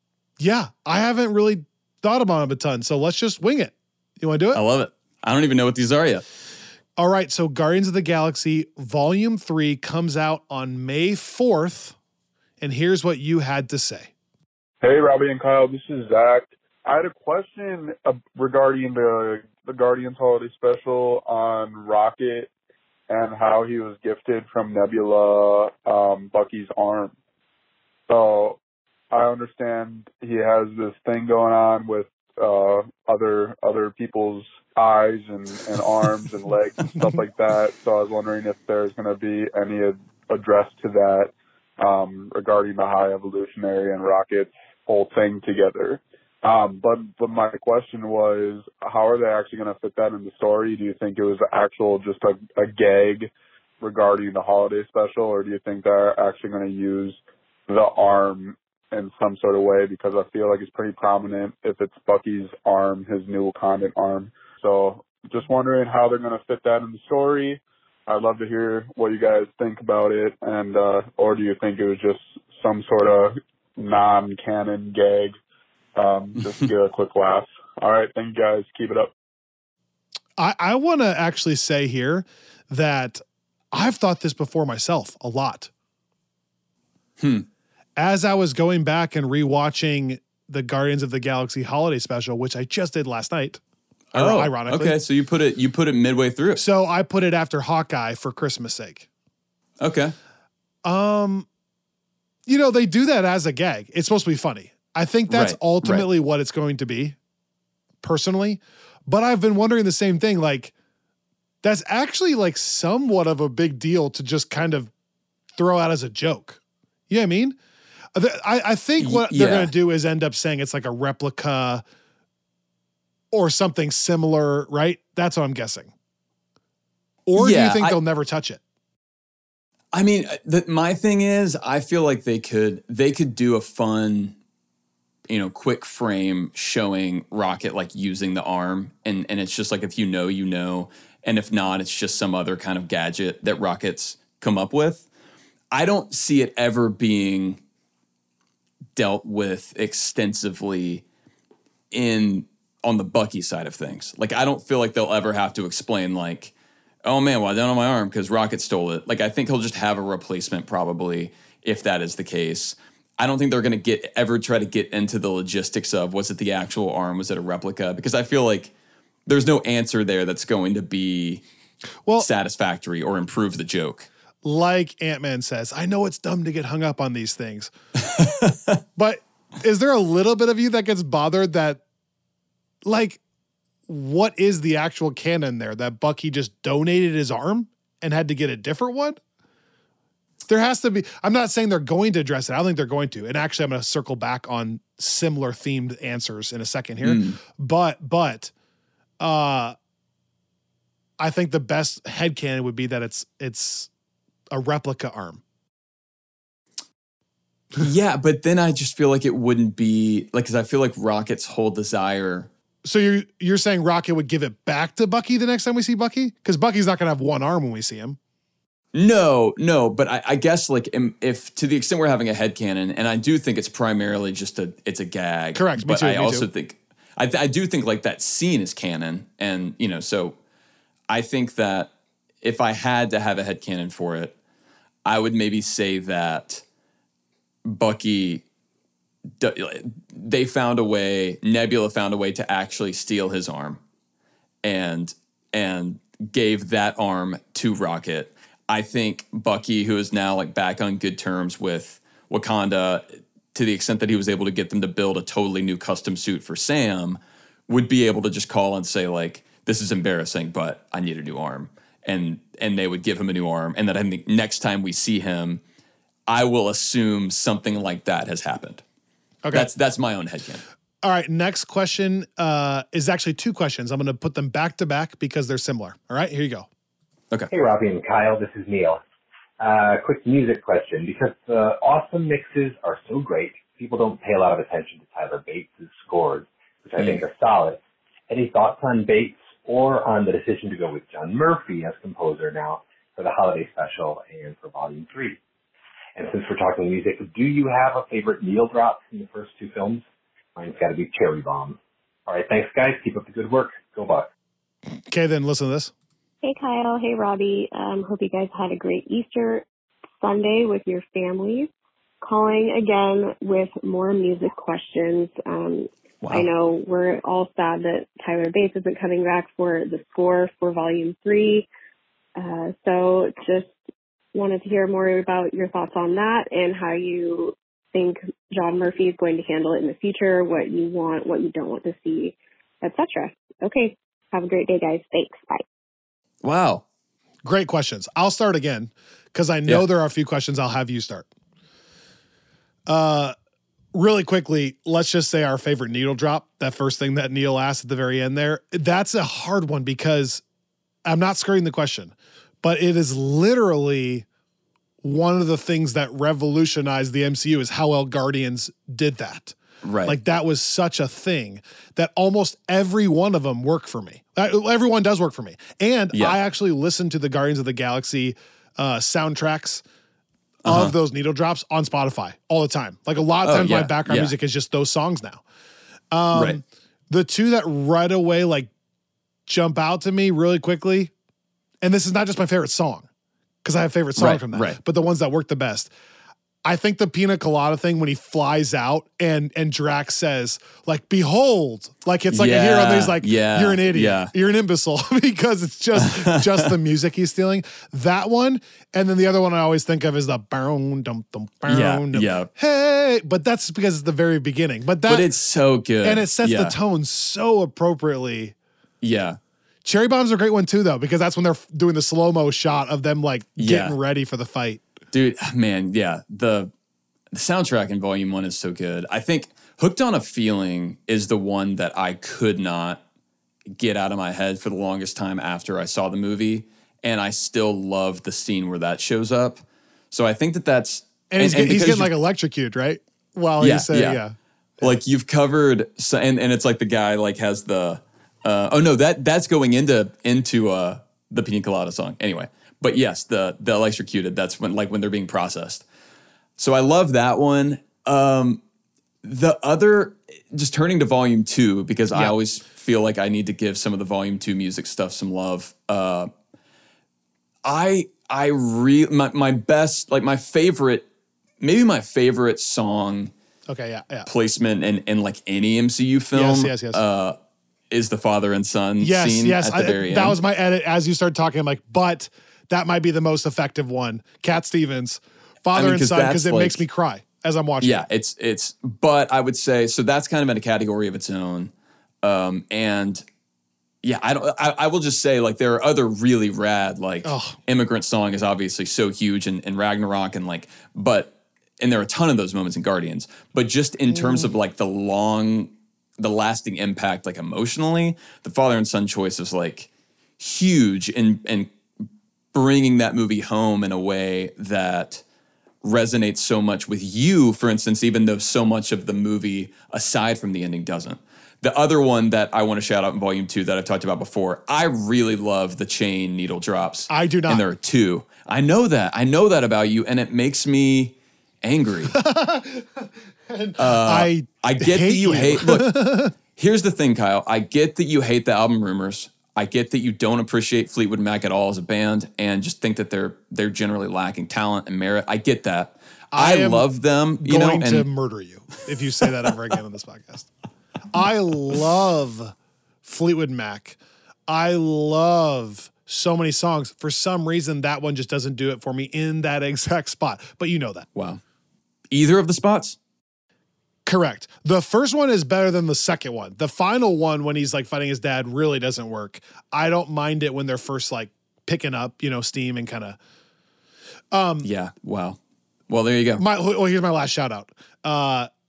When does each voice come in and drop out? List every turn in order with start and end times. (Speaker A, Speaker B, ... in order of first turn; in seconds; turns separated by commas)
Speaker A: 0.4-4.6, Speaker B: 4.5-6.2, Speaker A: 7.0-12.0, Speaker A: 12.6-14.1, Speaker C: 14.8-22.5, Speaker C: 23.1-27.1, Speaker C: 28.1-28.6, Speaker C: 29.1-53.3, Speaker C: 53.8-75.4, Speaker C: 76.0-79.1, Speaker A: 80.4-85.7, Speaker B: 87.2-87.5, Speaker A: 88.0-93.6, Speaker A: 94.1-95.0, Speaker B: 94.1-96.6, Speaker A: 96.6-99.1, Speaker B: 99.8-100.2, Speaker A: 100.8-101.5, Speaker A: 102.5-107.2, Speaker B: 105.3-106.1, Speaker A: 108.0-110.7, Speaker A: 111.6-114.9, Speaker A: 115.6-117.6, Speaker A: 118.2-121.8, Speaker B: 119.0-119.7, Speaker A: 123.3-125.9, Speaker A: 127.3-128.6, Speaker B: 127.4-128.0, Speaker B: 129.9-134.4, Speaker B: 135.3-145.1, Speaker B: 145.7-147.6, Speaker B: 149.0-151.1, Speaker B: 151.9-168.7, Speaker B: 169.3-171.4, Speaker B: 172.2-174.1, Speaker A: 174.4-177.7, Speaker B: 178.0-178.8, Speaker A: 179.0-181.8, Speaker A: 182.8-183.2, Speaker A: 183.9-189.2, Speaker A: 190.5-198.5, Speaker B: 197.0-197.4, Speaker A: 199.2-199.8, Speaker A: 201.2-203.9, Speaker A: 204.5-205.4, Speaker B: 207.8-212.5, Speaker A: 212.8-218.2, Speaker B: 218.9-230.4, Speaker A: 225.6-226.5, Speaker B: 231.1-231.9, Speaker B: 232.4-234.3, Speaker B: 235.1-236.6, Speaker B: 237.7-238.4, Speaker B: 239.4-243.8, Speaker B: 244.6-265.6, Speaker B: 266.3-268.8, Speaker B: 269.5-270.6, Speaker A: 271.0-276.7, Speaker D: 277.5-279.0, Speaker D: 279.6-295.4, Speaker B: 287.0-287.2, Speaker D: 296.2-300.0, Speaker D: 300.6-304.3, Speaker A: 305.1-305.9, Speaker E: 306.4-309.6, Speaker E: 310.2-311.7, Speaker E: 312.2-321.7, Speaker B: 316.2-316.5, Speaker E: 322.4-323.7, Speaker E: 324.4-335.6, Speaker B: 336.4-336.9, Speaker A: 337.4-341.3, Speaker A: 342.9-343.4, Speaker A: 343.9-350.4, Speaker A: 351.1-354.2, Speaker A: 355.0-359.6, Speaker B: 359.8-360.2, Speaker A: 360.1-369.8, Speaker B: 366.1-366.4, Speaker B: 370.6-370.9, Speaker A: 370.7-375.4, Speaker B: 373.4-374.3, Speaker A: 376.1-378.7, Speaker B: 376.3-376.6, Speaker A: 379.5-381.1, Speaker A: 381.8-383.1, Speaker A: 383.6-385.9, Speaker B: 384.2-384.8, Speaker A: 386.6-405.3, Speaker B: 392.3-394.3, Speaker B: 396.0-396.7, Speaker B: 401.7-402.5, Speaker B: 405.1-406.8, Speaker A: 406.0-408.6, Speaker B: 409.0-409.4, Speaker A: 409.9-414.8, Speaker B: 413.6-414.0, Speaker B: 415.1-416.7, Speaker B: 417.3-423.0, Speaker B: 423.7-432.1, Speaker A: 431.3-434.4, Speaker B: 433.6-434.2, Speaker B: 434.8-445.9, Speaker B: 446.6-448.6, Speaker B: 449.2-456.3, Speaker B: 457.6-461.1, Speaker B: 461.6-463.3, Speaker A: 463.7-464.3, Speaker B: 464.3-467.4, Speaker A: 466.3-467.0, Speaker B: 467.9-470.4, Speaker A: 469.0-478.0, Speaker B: 475.7-476.9, Speaker B: 477.8-483.2, Speaker B: 484.0-501.7, Speaker A: 487.2-487.6, Speaker A: 494.1-494.5, Speaker B: 502.5-505.2, Speaker B: 505.8-522.1, Speaker A: 517.1-517.6, Speaker A: 522.1-526.3, Speaker B: 523.8-525.9, Speaker B: 526.6-538.1, Speaker A: 536.3-536.9, Speaker A: 537.4-540.5, Speaker A: 541.1-551.1, Speaker B: 551.1-551.4, Speaker B: 552.1-553.0, Speaker A: 554.1-563.2, Speaker A: 564.3-564.7, Speaker B: 564.6-566.4, Speaker A: 566.4-568.5